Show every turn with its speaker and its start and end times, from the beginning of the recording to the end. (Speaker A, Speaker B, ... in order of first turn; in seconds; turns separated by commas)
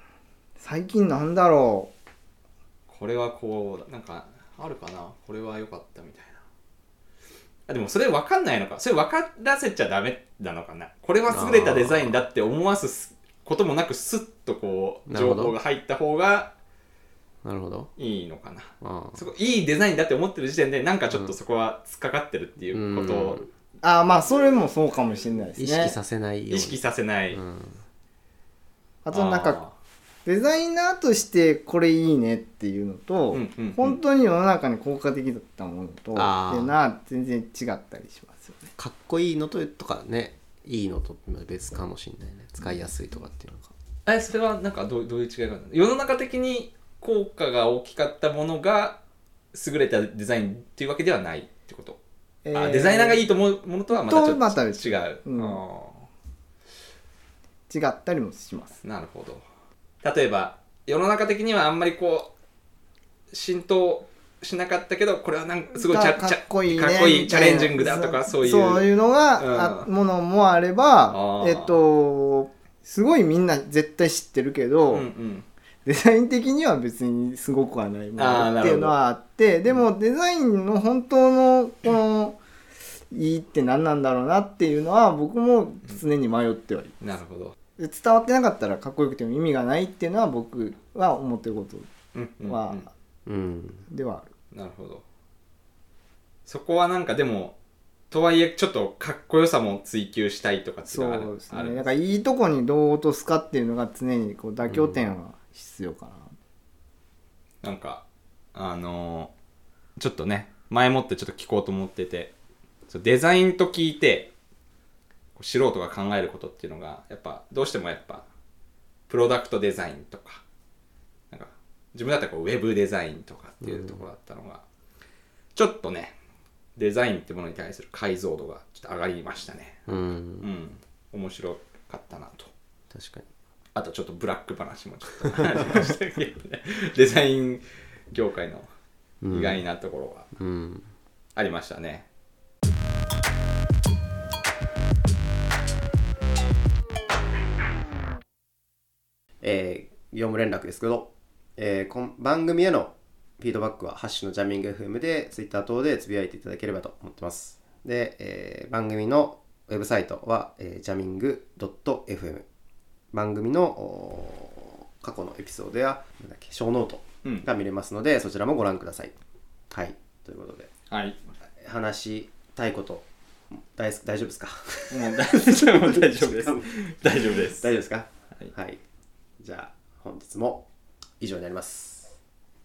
Speaker A: 0.6-1.9, Speaker B: 2.9-6.4, Speaker B: 7.7-16.5, Speaker C: 11.3-12.2, Speaker C: 15.1-15.5, Speaker C: 17.4-17.9, Speaker B: 18.0-23.4, Speaker C: 18.8-19.2, Speaker C: 22.7-23.5, Speaker A: 23.8-25.9, Speaker C: 25.6-26.8, Speaker B: 26.5-27.4, Speaker C: 27.3-27.8, Speaker A: 29.0-29.6, Speaker B: 29.1-29.7, Speaker A: 30.2-38.7, Speaker B: 33.3-34.0, Speaker C: 36.1-36.7, Speaker C: 38.8-43.7, Speaker B: 44.0-49.0, Speaker B: 49.5-52.0, Speaker A: 52.4-53.2, Speaker B: 52.5-56.0, Speaker A: 53.9-55.6, Speaker A: 57.7-58.8, Speaker B: 58.8-59.4, Speaker B: 60.0-62.3, Speaker B: 63.3-69.9, Speaker A: 65.7-75.1, Speaker B: 71.1-71.8, Speaker B: 74.9-75.4, Speaker A: 75.8-82.4, Speaker B: 78.2-79.0, Speaker A: 83.1-86.9, Speaker B: 87.0-87.5, Speaker A: 87.8-91.9, Speaker B: 92.1-92.9, Speaker A: 92.4-92.9, Speaker C: 93.2-93.8, Speaker A: 93.9-94.3, Speaker B: 94.5-95.0, Speaker B: 96.5-97.5, Speaker B: 98.1-101.8, Speaker A: 100.9-106.3, Speaker C: 104.7-105.0, Speaker B: 107.6-109.3, Speaker B: 110.0-112.3, Speaker B: 112.9-114.3, Speaker B: 115.3-118.2, Speaker B: 119.1-120.4, Speaker B: 121.3-124.6, Speaker C: 123.6-124.0, Speaker B: 125.5-126.1, Speaker B: 126.8-132.5, Speaker C: 129.9-130.5, Speaker C: 132.9-133.3, Speaker B: 133.7-138.7, Speaker C: 139.2-139.6, Speaker B: 139.3-140.3, Speaker C: 140.3-140.9, Speaker B: 141.3-142.1, Speaker C: 149.4-162.4, Speaker C: 163.1-169.1, Speaker C: 169.7-170.7, Speaker B: 170.9-171.2, Speaker C: 171.6-178.8, Speaker B: 174.9-177.7, Speaker C: 179.4-180.7, Speaker C: 181.2-182.2